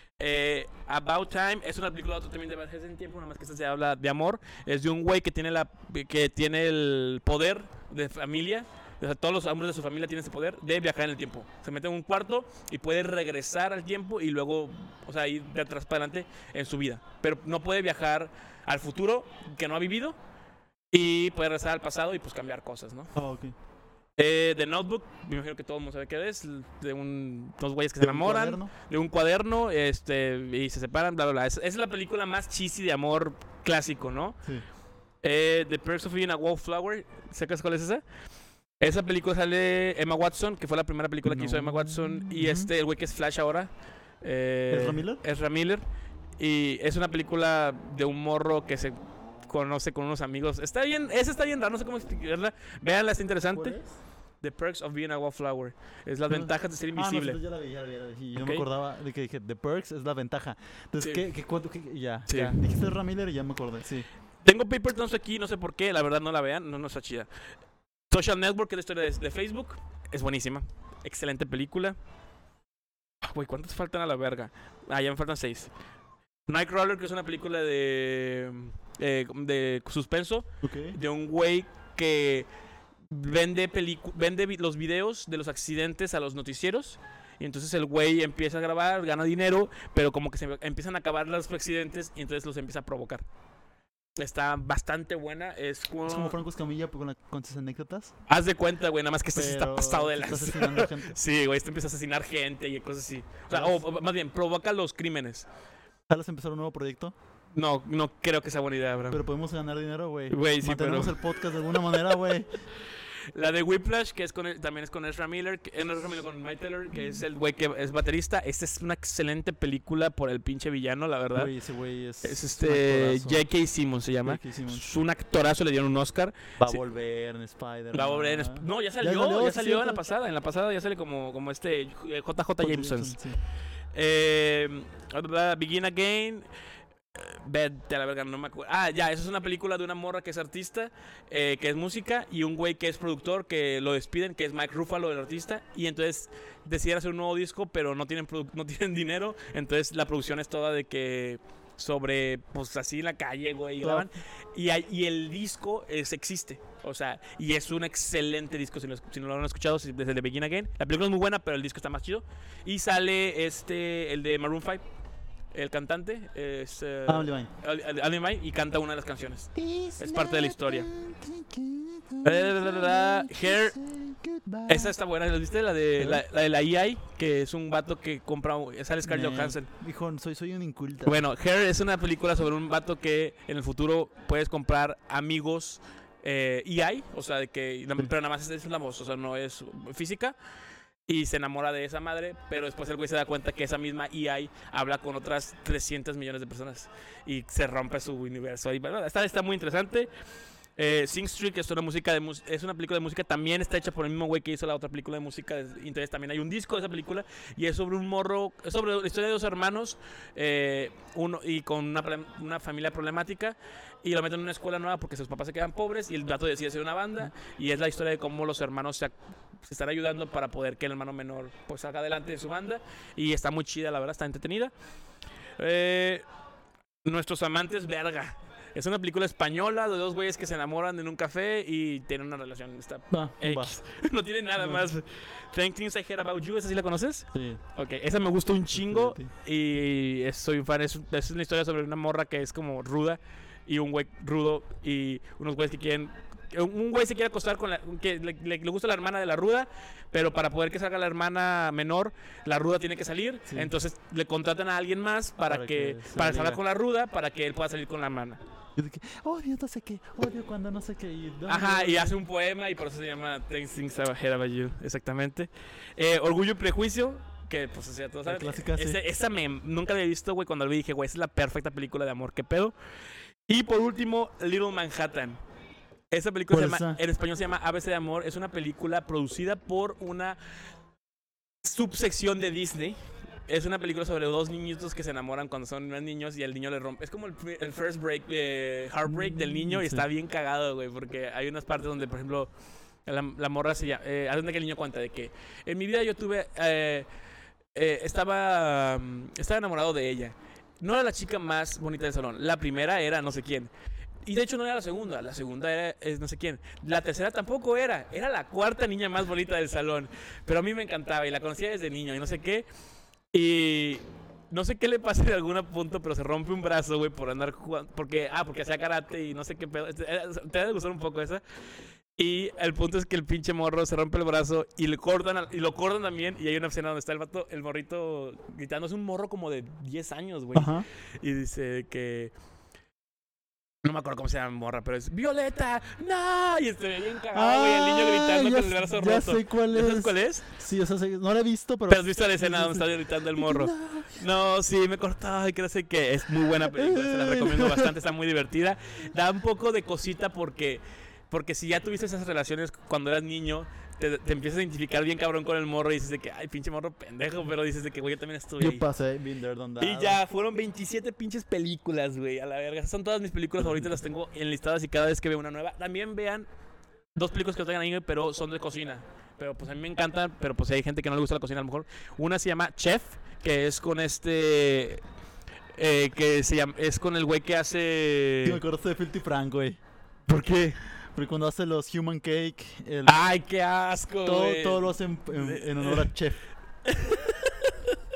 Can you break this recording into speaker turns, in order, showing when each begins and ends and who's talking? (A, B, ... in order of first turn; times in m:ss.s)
0:00.2-0:20.2 A
0:20.9-0:23.1 A
0:23.1-0:23.5 B
0:24.2-0:34.4 A
0:28.0-0:28.7 B
0:35.2-0:38.0 A
0:38.8-0:43.7 A
0:41.2-0:42.7 B
0:44.2-0:45.8 A
0:44.7-0:45.2 B
0:46.4-0:53.8 A
0:53.5-0:54.0 B
0:54.4-0:57.4 A
0:56.3-1:04.1 B
0:58.3-0:58.6 A
1:02.3-1:02.6 A
1:04.4-1:07.3 A
1:08.1-1:12.0 A
1:13.2-1:15.7 A
1:16.5-1:22.5 A
1:20.6-1:21.0 B
1:23.1-1:33.2 A
1:34.2-1:36.4 A
1:36.0-1:38.1 B
1:38.3-1:45.5 A
1:39.3-1:41.2 B
1:43.5-1:43.8 B
1:46.1-1:47.1 B
1:47.5-1:49.2 A
1:49.1-1:52.6 B
1:50.3-1:51.2 A
1:53.3-2:01.5 A
2:01.3-2:03.4 B
2:02.2-2:06.8 A
2:04.2-2:04.8 B
2:06.6-2:10.0 B
2:07.9-2:13.2 A
2:12.6-2:13.4 B
2:13.9-2:16.5 A
2:17.1-2:44.8 A
2:33.8-2:34.1 B
2:45.5-2:50.9 A
2:47.1-2:47.5 B
2:49.5-2:54.9 B
2:52.2-2:53.7 A
2:54.7-2:59.7 A
2:56.0-2:56.2 B
2:59.0-3:01.2 B
3:01.0-3:10.4 A
3:11.1-3:20.1 A
3:20.8-3:44.7 A
3:45.6-3:46.2 A
3:47.0-4:18.4 A
3:53.1-3:53.7 B
3:54.6-3:54.9 B
3:57.3-3:57.6 B
3:58.7-3:59.3 B
4:13.5-4:13.7 B
4:15.5-4:16.6 B
4:18.8-4:22.1 B
4:21.5-4:32.7 A
4:28.2-4:29.0 B
4:33.5-4:35.4 A
4:36.1-4:40.4 A
4:36.5-4:37.0 B
4:41.6-4:52.5 A
4:49.0-4:50.0 B
4:53.0-4:57.1 A
4:57.7-5:03.7 A
5:04.2-5:12.7 A
5:13.3-5:21.4 A
5:22.2-5:32.3 A
5:30.5-5:30.8 B
5:33.8-5:40.4 A
5:37.3-5:44.2 B
5:41.9-5:58.8 A
5:46.7-5:47.9 B
5:58.6-6:00.2 B
5:59.8-6:06.4 A
6:07.2-6:15.0 A
6:15.8-6:18.6 A
6:18.4-6:19.8 B
6:20.3-6:20.8 A
6:21.1-6:23.2 B
6:23.0-6:26.1 A
6:24.2-6:26.4 B
6:26.8-6:28.0 A